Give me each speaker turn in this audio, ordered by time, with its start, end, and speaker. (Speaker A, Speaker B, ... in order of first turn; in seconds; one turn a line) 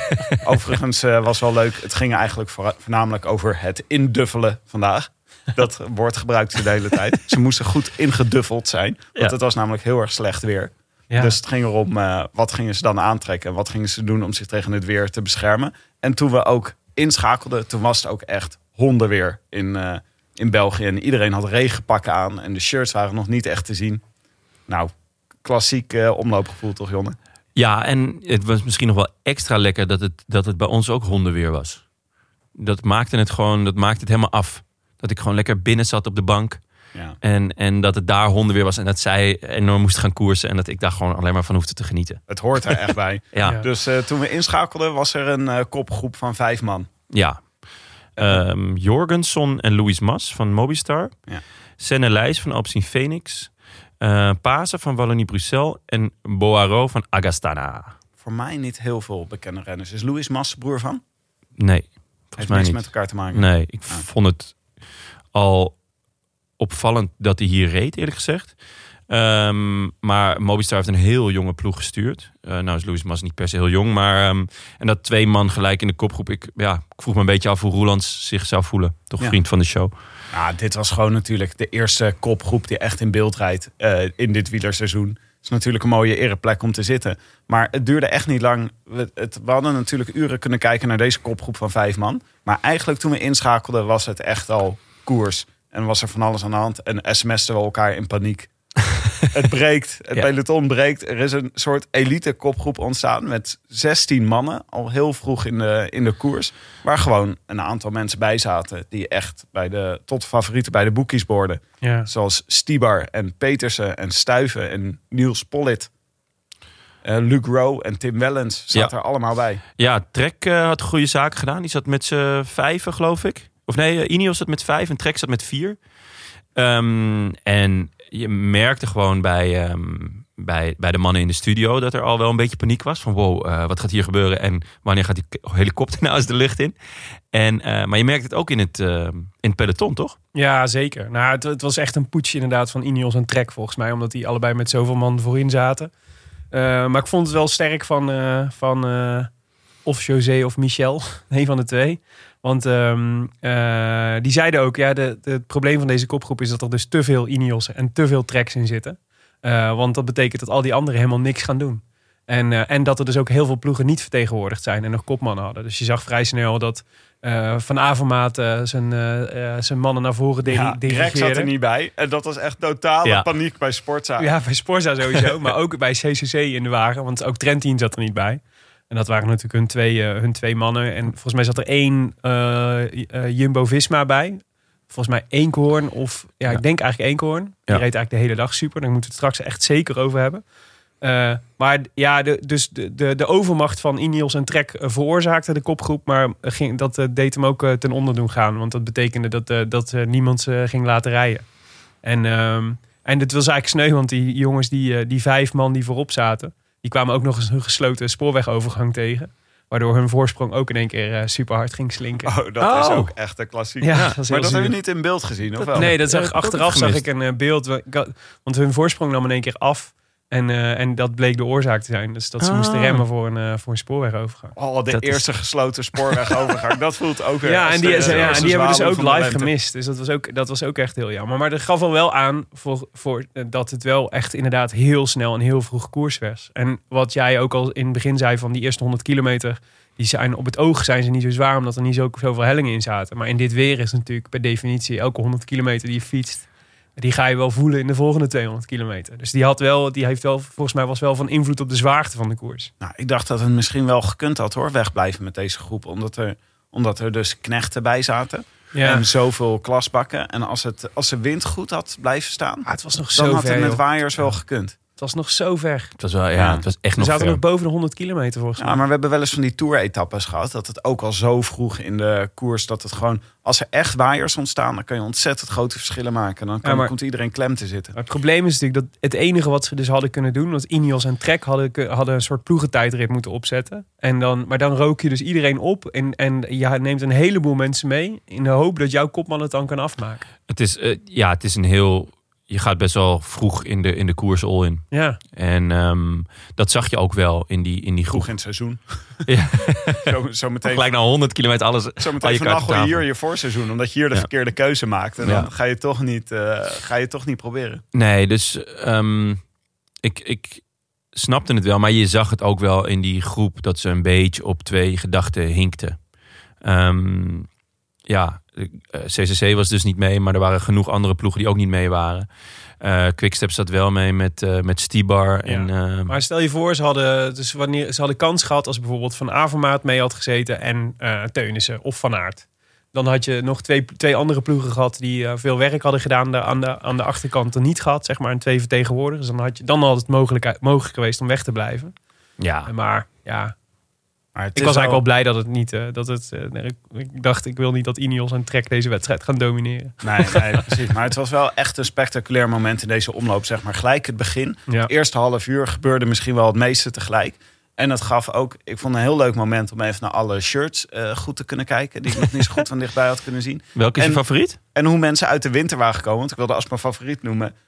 Speaker A: 0.4-24.0
Speaker B: 11.1-11.4
Speaker A: 25.4-27.2
Speaker C: 27.6-31.8
Speaker C: 32.6-36.6
Speaker C: 37.2-42.2
Speaker A: 42.3-46.9
Speaker C: 43.3-43.6
Speaker C: 47.1-47.5
Speaker C: 48.2-51.1
Speaker A: 48.2-48.4
Speaker C: 51.8-53.5
Speaker C: 54.0-58.0
Speaker A: 58.2-61.0
Speaker C: 61.6-64.6
Speaker A: 62.4-64.0
Speaker C: 65.3-65.8
Speaker C: 66.6-68.5
Speaker C: 69.1-79.9
Speaker A: 80.3-98.5
Speaker A: 99.3-115.9
Speaker B: 111.8-112.1
Speaker A: 117.0-119.6
Speaker C: 119.8-125.8
Speaker C: 126.5-136.7
Speaker C: 137.3-140.2
Speaker B: 140.3-145.9
Speaker B: 146.5-149.3
Speaker B: 149.8-171.5
Speaker A: 170.4-174.3
Speaker B: 174.2-190.4
Speaker B: 191.0-201.4
Speaker B: 202.0-212.3
Speaker A: 212.2-215.9
Speaker C: 212.6-213.1
Speaker B: 213.8-214.8
Speaker C: 215.6-217.0
Speaker B: 215.8-224.6
Speaker C: 222.4-223.0
Speaker A: 224.6-229.5
Speaker C: 224.9-225.2
Speaker B: 227.4-246.5
Speaker C: 228.0-228.4
Speaker B: 247.0-252.7
Speaker A: 252.8-264.8
Speaker B: 258.7-259.1
Speaker B: 262.7-264.3
Speaker B: 265.0-265.9
Speaker C: 266.0-267.4
Speaker A: 266.4-266.6
Speaker B: 267.0-268.8
Speaker A: 268.6-277.9
Speaker B: 276.6-276.9
Speaker B: 277.9-290.2
Speaker C: 290.5-298.3
Speaker B: 294.9-295.2
Speaker A: 298.1-299.3
Speaker C: 299.3-303.0
Speaker A: 300.0-300.9
Speaker A: 302.0-307.8
Speaker C: 305.2-305.5
Speaker C: 307.9-309.4
Speaker C: 310.0-310.6
Speaker C: 311.1-316.0
Speaker C: 316.6-317.5
Speaker C: 318.1-322.3
Speaker C: 322.8-326.2
Speaker B: 325.4-341.9
Speaker C: 342.4-342.7
Speaker B: 342.7-343.5
Speaker A: 344.4-345.0
Speaker B: 344.6-350.7
Speaker A: 350.0-367.5
Speaker C: 363.8-364.6